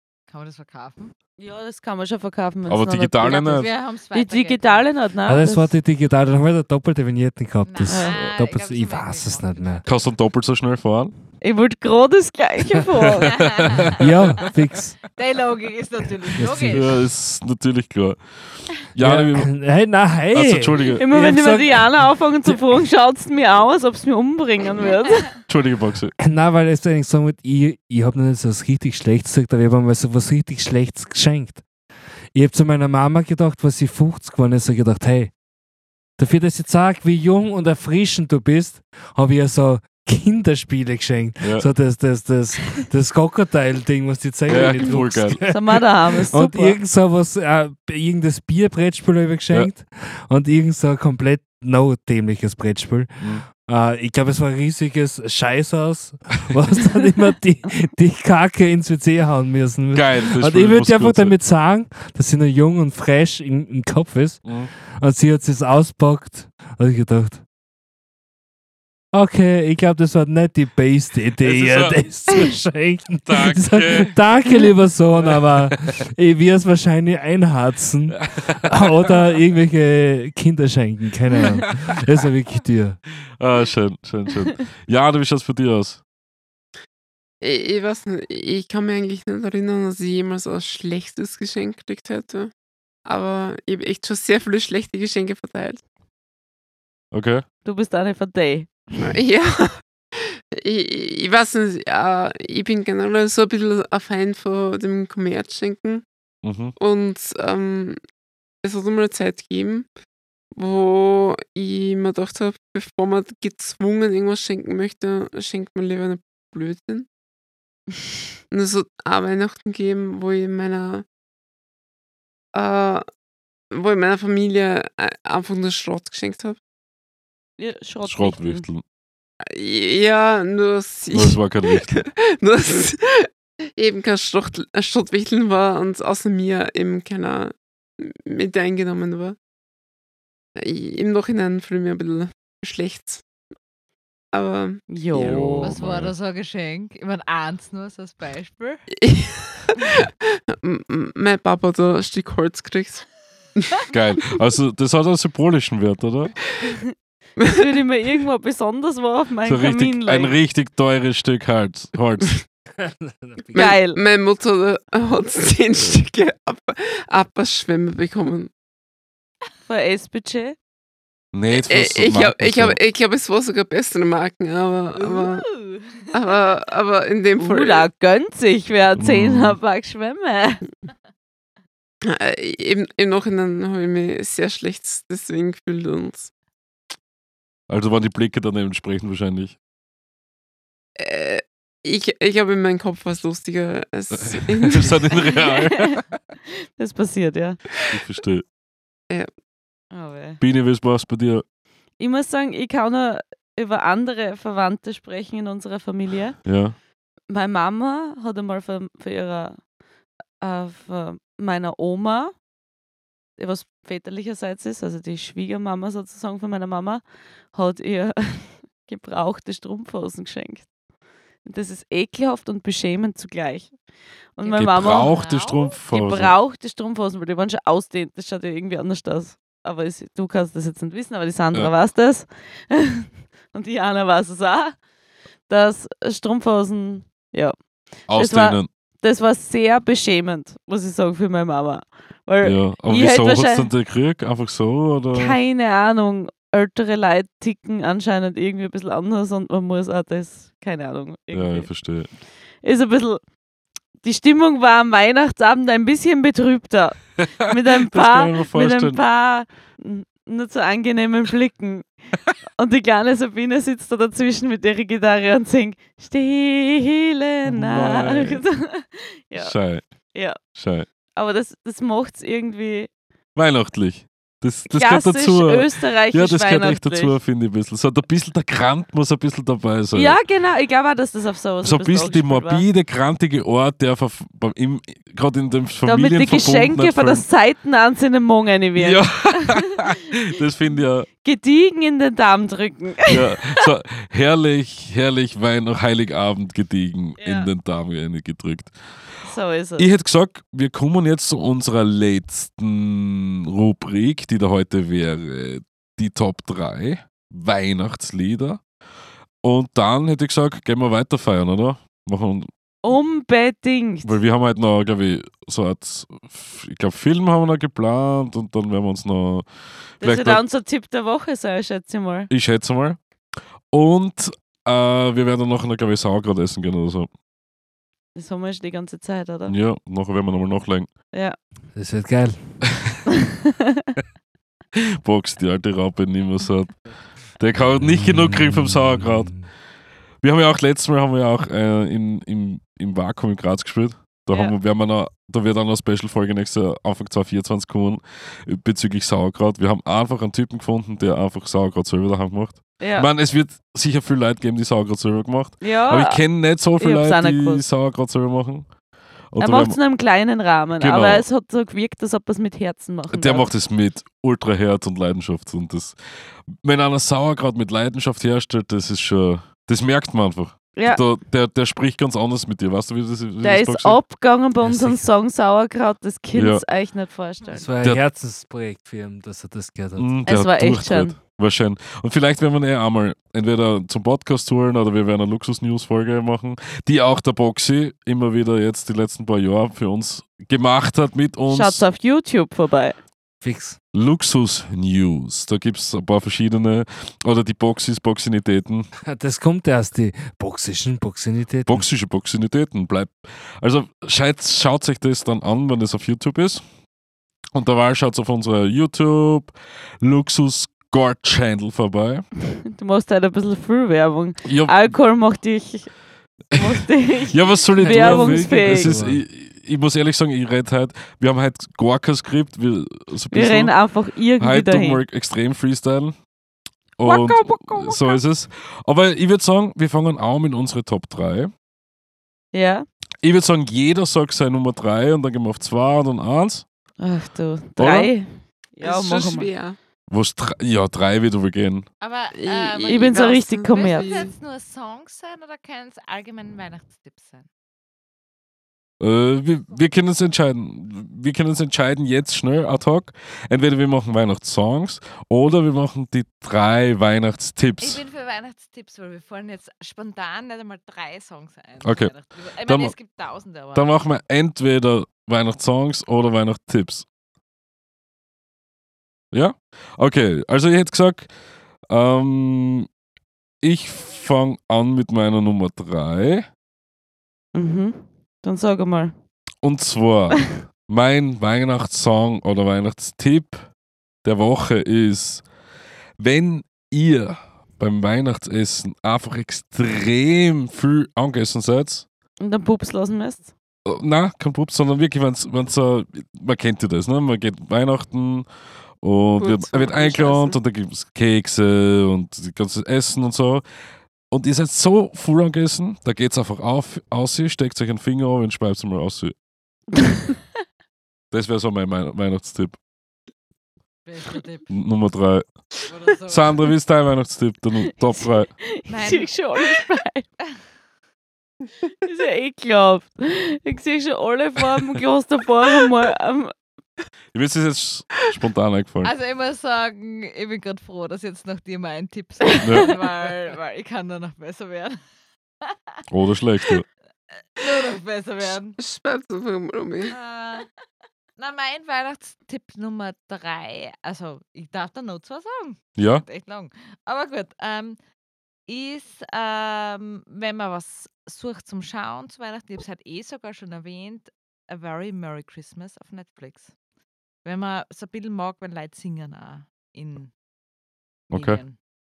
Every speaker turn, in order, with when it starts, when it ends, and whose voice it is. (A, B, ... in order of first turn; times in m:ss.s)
0:00.3-0:01.1 A
0:01.4-0:05.7 B
0:02.7-0:03.7 C
0:03.2-0:04.8 A
0:05.2-0:09.8 D
0:07.6-0:09.9 A
0:07.8-0:08.2 B
0:09.8-0:11.1 C
0:11.4-0:13.3 B
0:13.2-0:14.4 A
0:14.0-0:15.0 D
0:15.1-0:17.0 A
0:16.4-0:16.8 D
0:16.7-0:19.6 C
0:19.0-0:22.6 D
0:20.3-0:21.1 C
0:21.0-0:25.3 B
0:25.5-0:26.1 C
0:26.2-0:31.6 D
0:32.3-0:35.3 D
0:36.2-1:07.4 D
0:41.4-0:41.7 C
0:44.5-0:45.6 C
0:45.5-0:46.8 B
0:59.9-1:01.3 C
1:04.4-1:04.7 C
1:09.1-1:23.0 D
1:11.4-1:12.3 C
1:13.2-1:14.2 C
1:15.2-1:15.7 C
1:18.2-1:19.1 C
1:23.4-1:26.0 C
1:27.4-1:32.5 E
1:33.0-1:35.8 E
1:37.1-1:37.4 C
1:37.6-1:38.8 B
1:39.0-1:39.8 E
1:40.5-1:46.0 E
1:46.4-1:46.7 C
1:46.8-1:48.0 E
1:48.6-1:49.9 E
1:50.5-1:57.1 E
1:58.5-2:01.0 E
2:02.5-2:03.0 E
2:03.7-2:06.6 E
2:07.6-2:08.6 B
2:08.0-2:08.8 C
2:09.5-2:19.4 E
2:11.1-2:12.0 C
2:20.6-2:23.2 E
2:24.3-2:24.9 E
2:24.9-2:25.8 B
2:25.1-2:26.1 C
2:25.6-2:28.8 A
2:28.9-2:33.0 E
2:33.9-2:36.3 C
2:37.4-2:37.6 E
2:37.4-2:40.3 B
2:39.4-2:42.4 C
2:42.8-2:43.7 D
2:43.5-2:48.5 E
2:43.5-2:44.0 B
2:49.7-2:50.6 B
2:51.3-2:52.8 C
2:51.5-2:55.5 E
2:55.0-2:56.5 A
2:56.1-2:57.9 E
2:57.4-3:00.6 B
2:59.0-2:59.6 C
3:02.0-3:06.3 E
3:07.7-3:09.6 C
3:11.0-3:15.3 E
3:14.1-3:16.0 C
3:15.5-3:16.0 B
3:16.8-3:17.6 B
3:17.9-3:18.4 C
3:19.9-3:20.4 B
3:20.4-3:21.4 C
3:22.0-3:26.4 B
3:26.4-3:26.8 C
3:27.3-3:29.6 B
3:30.4-3:32.3 B
3:33.4-3:40.7 B
3:41.4-3:43.8 B
3:44.3-3:45.1 B
3:44.4-3:45.8 A
3:44.6-3:46.3 C
3:45.9-3:54.7 B
3:55.5-3:57.5 B
3:58.1-3:58.7 C
3:58.1-4:03.7 B
4:02.4-4:05.4 C
4:05.1-4:11.7 B
4:11.3-4:12.1 C
4:12.6-4:13.2 B
4:14.0-4:21.9 B
4:17.9-4:19.0 C
4:22.6-4:29.5 B
4:27.4-4:28.4 C
4:29.4-4:29.8 C
4:30.5-4:30.9 C
4:31.2-4:32.9 B
4:33.3-4:40.2 C
4:34.7-4:37.2 B
4:39.9-4:42.6 B
4:41.6-4:47.2 C
4:45.8-4:49.9 B
4:48.8-4:51.1 C
4:51.2-4:53.6 B
4:53.1-4:58.7 C
4:57.2-4:57.5 B
4:59.2-4:59.9 B
4:59.8-5:08.6 C
5:09.4-5:12.5 C
5:12.8-5:14.2 B
5:14.0-5:19.5 C
5:20.0-5:20.4 C
5:20.0-5:22.3 B
5:22.3-5:23.0 C
5:23.7-5:27.1 C
5:28.1-5:29.5 B
5:29.5-5:30.9 C
5:31.7-5:32.7 D
5:34.8-5:36.8 C
5:37.4-5:39.3 C
5:37.8-5:39.5 D
5:40.2-5:58.7 C
5:52.8-5:53.1 B
5:55.6-5:56.2 B
5:56.8-5:57.6 B
5:59.3-5:59.8 C
5:59.4-6:03.5 B
6:00.8-6:01.3 C
6:03.1-6:06.0 C
6:06.5-6:14.0 C
6:10.7-6:11.0 B
6:13.4-6:17.6 B
6:14.6-6:15.0 D
6:16.3-6:16.6 C
6:17.5-6:20.1 D
6:20.0-6:31.8 C
6:20.3-6:21.1 B
6:31.5-6:33.0 B
6:33.4-6:33.8 D
6:33.9-6:38.9 C
6:39.0-6:41.8 D
6:41.7-6:46.6 C
6:47.5-6:52.3 C
6:52.7-6:55.9 B
6:54.4-6:54.9 C
6:56.5-6:58.9 B
6:57.3-7:03.8 C
6:57.8-6:59.2 D
7:03.3-7:05.0 B
7:04.4-7:06.1 C
7:07.0-7:11.5 C
7:07.0-7:08.2 B
7:12.5-7:12.8 B
7:13.2-7:16.6 C
7:17.0-7:19.5 B
7:17.8-7:18.1 C
7:18.8-7:19.8 E
7:20.1-7:21.9 C
7:22.0-7:27.5 A
7:22.3-7:24.3 E
7:22.8-7:24.1 B
7:29.0-7:38.0 C
7:37.8-7:43.9 A
7:41.8-7:42.1 C
7:42.6-7:43.0 C
7:43.7-7:47.0 C
7:49.3-7:51.3 C
7:51.9-7:52.9 C
7:53.6-7:56.4 C
7:57.5-7:59.1 B
7:59.6-8:03.6 C
8:04.2-8:05.4 C
8:06.2-8:12.0 C
8:12.4-8:13.5 B
8:13.8-8:18.5 C
8:19.0-8:23.6 C
8:19.4-8:20.6 E
8:24.3-8:29.3 C
8:30.0-8:30.3 B
8:31.3-8:32.8 C
8:34.0-8:34.7 A
8:34.7-8:35.5 C
8:35.9-8:36.7 A
8:36.3-8:38.5 C
8:38.2-8:40.2 B
8:38.9-8:39.3 A
8:42.0-8:46.5 B
8:47.3-8:49.1 C
8:49.0-8:55.0 A
8:52.6-8:52.9 C
8:55.6-8:56.0 A
8:56.1-8:56.8 C
8:57.6-8:58.8 A
8:58.8-9:00.1 E
9:00.0-9:00.7 A
9:01.4-9:08.0 A
9:06.0-9:06.2 C
9:08.7-9:16.7 A
9:17.4-9:20.3 A
9:21.3-9:21.8 A
9:21.3-9:21.6 C